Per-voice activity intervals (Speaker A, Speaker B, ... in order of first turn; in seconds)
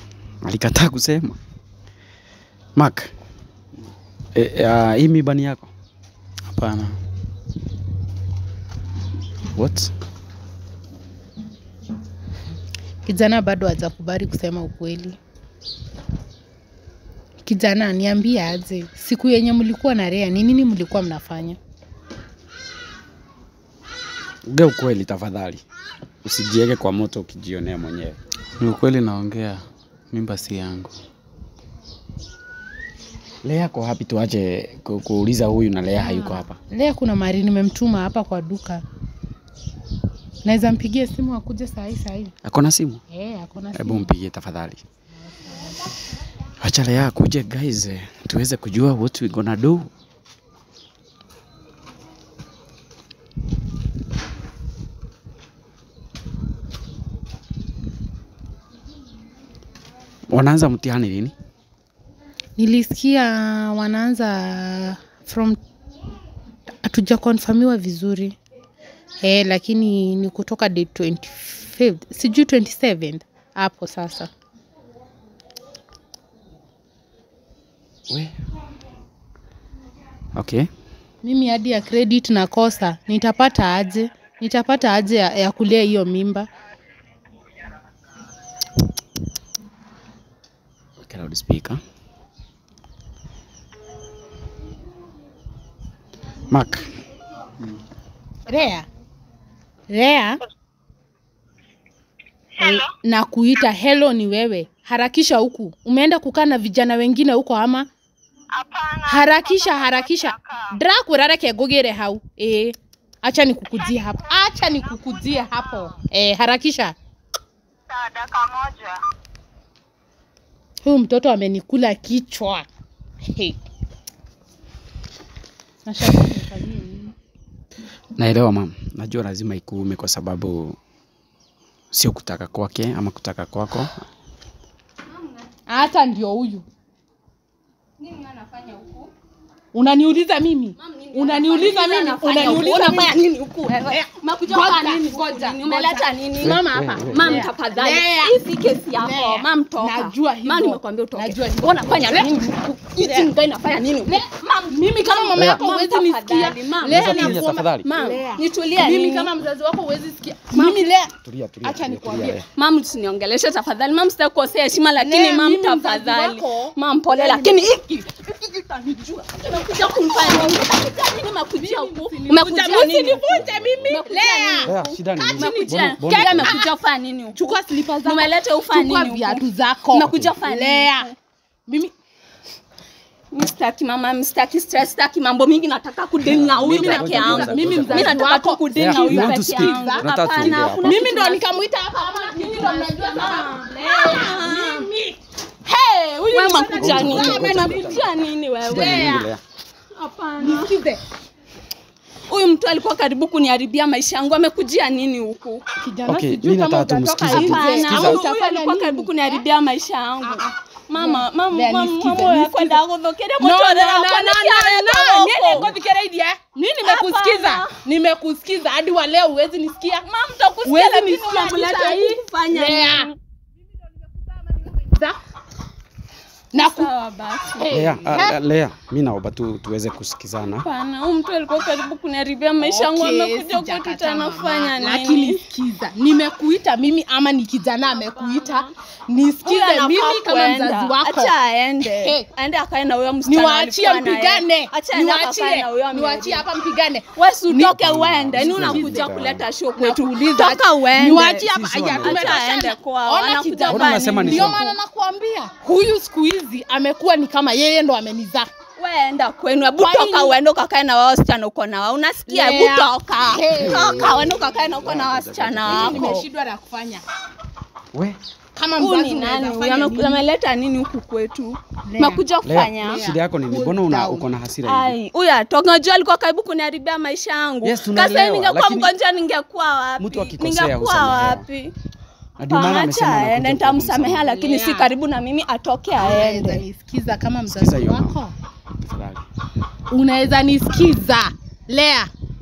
Speaker A: 0.4-1.4, 2.8-3.1, 4.3-5.7, 9.5-9.9, 24.4-25.6, 26.2-28.2, 33.4-36.6, 42.4-43.0, 43.7-44.8, 46.6-49.9, 60.3-61.3, 80.3-80.7, 91.0-91.8, 96.5-96.9, 128.2-130.8, 131.9-134.0, 146.4-147.5, 155.3-155.6, 156.9-157.9, 161.2-162.4, 173.1-173.9, 174.6-176.6, 186.3-188.2, 188.7-191.0, 196.8-198.1, 198.6-199.4, 206.1-208.2, 227.7-230.7, 247.8-249.4, 251.5-252.4, 253.7-254.6, 263.6-266.1, 267.9-268.2, 272.4-274.9, 277.6-278.9, 280.0-281.4, 282.4-284.2, 287.5-288.2, 288.8-289.2
Speaker B: 6.6-6.9, 28.6-30.9
Speaker C: 13.1-15.2, 17.4-21.6, 36.0-38.8, 40.4-42.3, 43.1-44.1, 62.6-65.6, 66.8-68.3, 69.2-74.3, 81.2-86.5, 98.5-98.9, 99.9-100.4, 102.6-107.9, 108.8-116.9, 120.8-122.7, 123.3-123.6, 125.8-127.1, 135.7-136.6, 139.7-148.4, 148.9-153.3, 154.0-162.4, 165.0-169.2, 169.8-170.6, 171.5-176.6, 177.3-181.1, 181.7-181.9, 186.2-190.1, 190.8-198.0, 198.7-199.3, 200.4-201.0, 205.8-209.4, 210.2-212.8, 213.4-220.1, 220.6-223.1, 223.9-225.2, 226.5-226.9, 227.6-228.4, 232.6-242.3, 243.2-247.8, 248.3-249.1, 249.7-258.5, 259.8-260.4, 262.3-264.7, 265.7-267.0, 268.5-270.2, 271.9-272.2, 272.8-274.3, 284.2-284.9, 286.0-288.3, 289.9-292.1
Speaker D: 138.0-139.1, 140.8-159.3, 160.5-160.8, 162.6-167.8, 169.2-177.4, 178.0-181.1, 183.3-194.9, 196.3-199.1, 200.0-200.7, 202.3-205.6, 207.3-215.7, 216.8-217.7, 220.0-223.1, 226.6-227.8, 230.6-235.4, 237.9-238.7, 239.4-246.4, 247.1-251.5, 252.0-254.8, 258.8-266.2, 268.8-273.0, 274.6-281.7, 282.5-286.6